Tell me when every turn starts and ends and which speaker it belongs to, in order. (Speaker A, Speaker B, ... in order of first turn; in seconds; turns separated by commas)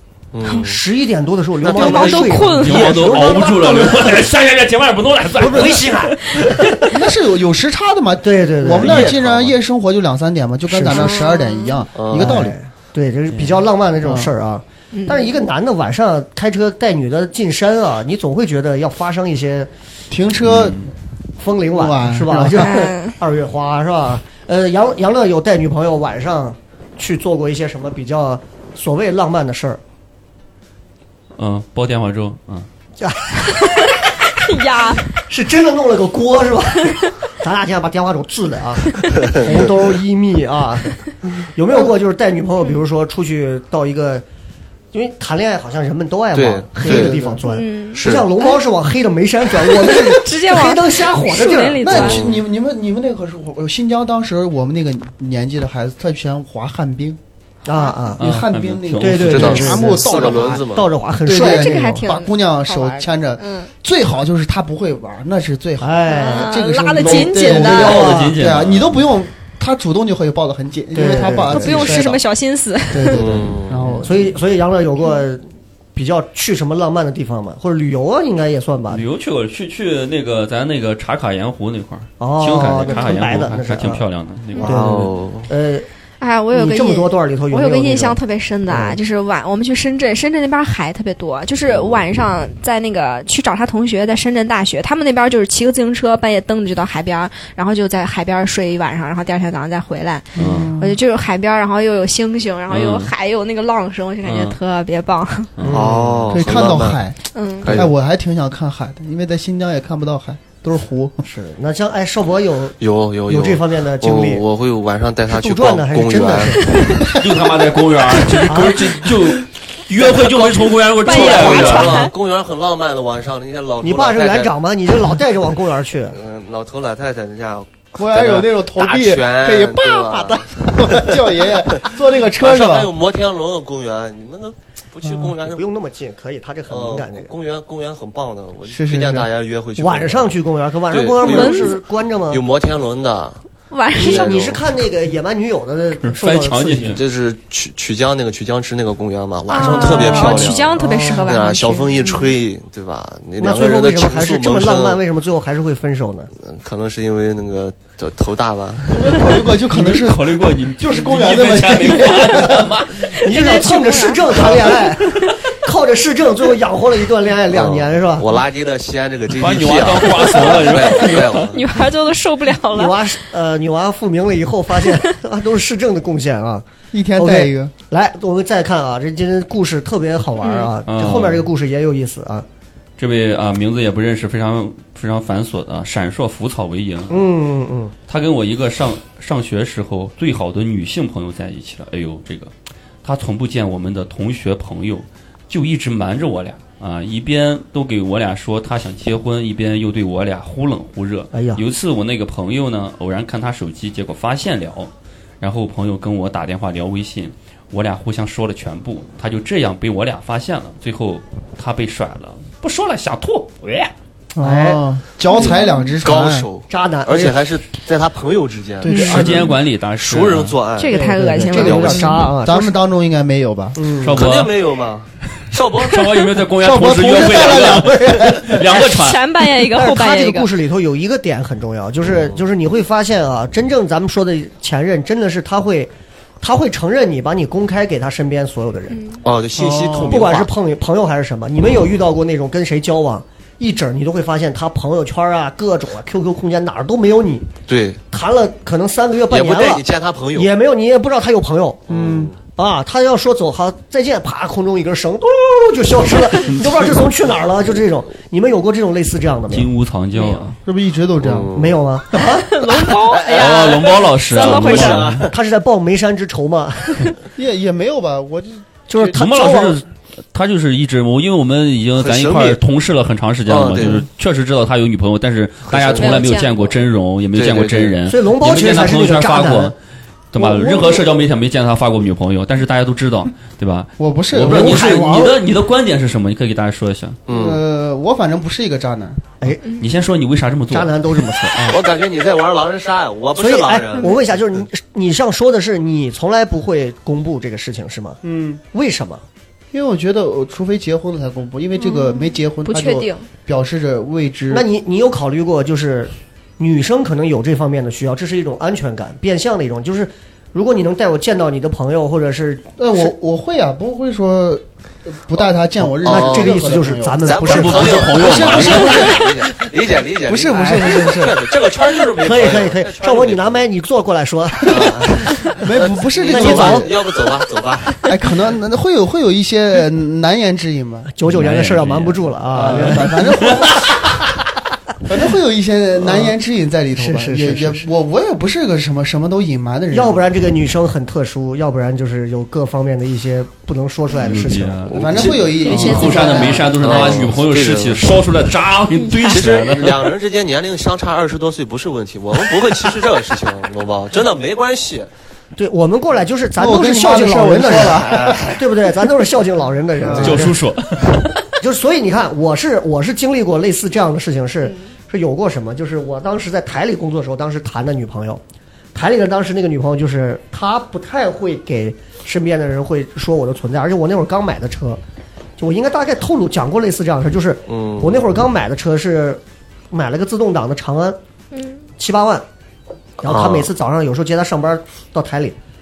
Speaker A: 0.3-0.8, Speaker B: 0.5-4.1, Speaker A: 1.6-2.4, Speaker C: 1.7-3.4, Speaker D: 2.5-6.8, Speaker B: 5.3-6.7, Speaker E: 6.9-12.6, Speaker B: 8.2-9.1, Speaker A: 8.8-9.6, Speaker B: 10.7-11.1, Speaker C: 10.9-11.8, Speaker A: 11.9-12.4, Speaker B: 12.1-19.7, Speaker E: 14.0-14.3, Speaker C: 14.9-15.3, Speaker E: 20.1-20.9, Speaker D: 20.5-20.8, Speaker B: 21.4-29.8, Speaker E: 21.7-22.8, Speaker C: 22.5-23.2, Speaker D: 31.4-32.7, Speaker B: 33.0-33.9, Speaker C: 33.4-35.1, Speaker B: 35.2-44.2, Speaker A: 39.2-39.7, Speaker B: 44.9-52.2, Speaker A: 46.3-47.2, Speaker E: 46.8-47.4, Speaker C: 47.5-48.6, Speaker A: 48.0-48.3, Speaker C: 49.6-52.3, Speaker E: 51.8-57.2, Speaker A: 51.9-52.4, Speaker B: 57.6-58.3, Speaker E: 58.2-60.6, Speaker D: 58.2-59.6, Speaker B: 59.0-62.0, Speaker A: 59.3-60.9, Speaker E: 61.2-72.2, Speaker C: 61.3-63.7, Speaker B: 65.8-68.5, Speaker C: 66.1-68.0, Speaker D: 67.7-69.0, Speaker B: 70.9-72.0, Speaker C: 71.5-73.2, Speaker E: 72.9-74.2, Speaker A: 73.1-74.0, Speaker B: 74.0-75.4, Speaker B: 75.9-79.0, Speaker D: 78.9-85.0, Speaker B: 82.2-84.0, Speaker C: 82.9-83.2, Speaker B: 84.6-85.9, Speaker A: 84.6-85.5, Speaker C: 86.2-105.5, Speaker B: 86.5-89.0, Speaker A: 91.7-92.0, Speaker D: 100.3-100.7, Speaker E: 100.3-101.0, Speaker D: 102.7-103.1, Speaker D: 104.2-104.5, Speaker D: 105.6-106.0, Speaker B: 105.6-106.2, Speaker A: 105.7-107.0, Speaker E: 106.3-111.2, Speaker C: 107.3-107.7, Speaker A: 107.6-107.9, Speaker B: 111.2-114.4, Speaker A: 112.8-117.0, Speaker B: 115.3-117.0, Speaker C: 116.8-117.1, Speaker D: 117.1-122.1, Speaker B: 118.4-119.0, Speaker A: 120.1-124.5, Speaker C: 121.0-122.1, Speaker B: 123.8-126.2, Speaker A: 126.1-131.2, Speaker E: 128.0-132.9, Speaker A: 131.7-135.6, Speaker B: 135.2-137.3, Speaker A: 136.7-140.3, Speaker E: 138.7-139.3, Speaker B: 139.8-142.4, Speaker A: 140.9-141.8, Speaker C: 141.2-141.8, Speaker A: 142.3-143.4, Speaker C: 143.7-144.4, Speaker A: 143.9-144.6, Speaker B: 143.9-147.0, Speaker D: 146.0-147.0, Speaker A: 146.9-155.0, Speaker C: 149.5-152.2, Speaker B: 149.5-151.3, Speaker B: 153.4-156.3, Speaker A: 156.4-159.4, Speaker E: 158.9-162.8, Speaker D: 159.7-163.1, Speaker C: 163.0-164.4, Speaker B: 163.0-168.3, Speaker A: 167.5-171.6, Speaker D: 169.3-171.5, Speaker C: 171.3-173.1, Speaker B: 172.7-182.5, Speaker E: 176.9-177.7, Speaker C: 180.4-180.7, Speaker D: 180.9-181.5, Speaker D: 183.0-187.2, Speaker B: 187.1-187.9, Speaker D: 188.1-192.5, Speaker D: 193.0-204.9, Speaker B: 201.3-201.6, Speaker D: 205.4-213.9, Speaker E: 214.3-216.5, Speaker B: 214.4-214.8, Speaker A: 215.3-222.2, Speaker C: 215.4-215.8, Speaker B: 216.7-217.4, Speaker E: 218.8-219.4, Speaker D: 218.9-220.6, Speaker C: 218.9-219.2, Speaker C: 220.8-222.2, Speaker B: 220.9-222.8, Speaker E: 222.4-223.8, Speaker B: 223.7-224.2, Speaker D: 224.0-224.5, Speaker A: 224.1-226.0, Speaker D: 225.8-229.2, Speaker E: 226.6-228.7, Speaker C: 228.7-230.5, Speaker B: 229.5-239.0, Speaker A: 232.1-232.4, Speaker C: 238.9-239.2, Speaker A: 239.2-240.5, Speaker E: 239.6-240.3, Speaker B: 240.0-247.5, Speaker A: 247.7-248.0, Speaker B: 248.1-251.9, Speaker A: 249.3-250.5, Speaker A: 251.9-252.3, Speaker E: 251.9-252.3, Speaker B: 252.6-259.7, Speaker D: 256.6-256.9, Speaker D: 259.5-260.6, Speaker E: 260.6-261.5, Speaker A: 261.2-261.8, Speaker B: 261.5-262.6, Speaker C: 262.5-265.0, Speaker A: 263.0-265.3, Speaker D: 263.3-265.3, Speaker B: 264.5-267.1, Speaker E: 267.4-269.1, Speaker B: 268.9-269.8, Speaker D: 269.0-279.8, Speaker A: 272.0-272.6, Speaker A: 273.5-274.0, Speaker A: 275.7-276.2, Speaker C: 276.0-276.5, Speaker A: 277.3-277.9, Speaker B: 278.1-279.7, Speaker D: 280.3-287.2, Speaker E: 280.6-280.9, Speaker E: 284.0-284.8, Speaker B: 284.4-285.4, Speaker A: 287.3-287.6, Speaker E: 287.3-289.3, Speaker D: 289.8-291.3, Speaker B: 290.7-291.8, Speaker A: 291.7-294.1, Speaker B: 293.4-298.2, Speaker E: 298.2-298.6, Speaker B: 298.7-299.2, Speaker E: 299.7-304.6, Speaker C: 301.8-303.2, Speaker B: 304.5-313.1, Speaker E: 312.8-317.3, Speaker B: 315.8-318.2, Speaker A: 316.0-316.6, Speaker A: 317.2-323.6, Speaker D: 317.4-319.1, Speaker E: 318.1-319.3, Speaker E: 320.3-321.5, Speaker B: 320.5-321.0, Speaker B: 322.2-325.3, Speaker A: 324.6-328.1, Speaker E: 325.6-326.9, Speaker B: 326.2-326.9, Speaker E: 328.0-331.1, Speaker B: 331.1-333.6, Speaker D: 331.2-334.0, Speaker E: 332.5-334.2, Speaker E: 335.0-340.2, Speaker B: 336.0-336.3, Speaker B: 337.0-337.9, Speaker B: 339.9-346.6, Speaker D: 344.2-350.0, Speaker E: 344.9-346.4, Speaker A: 345.1-345.4, Speaker C: 345.6-347.0, Speaker A: 346.8-348.1, Speaker C: 348.9-349.4, Speaker A: 349.2-355.1, Speaker B: 355.6-360.6, Speaker E: 356.6-358.6, Speaker A: 358.2-358.5, Speaker E: 360.0-360.4, Speaker A: 360.1-360.6, Speaker D: 360.2-361.4, Speaker B: 361.6-368.4, Speaker B: 368.9-375.0, Speaker B: 375.6-381.2, Speaker A: 377.7-378.2, Speaker C: 381.5-381.8, Speaker B: 382.0-382.4, Speaker B: 383.2-385.6, Speaker A: 383.2-383.7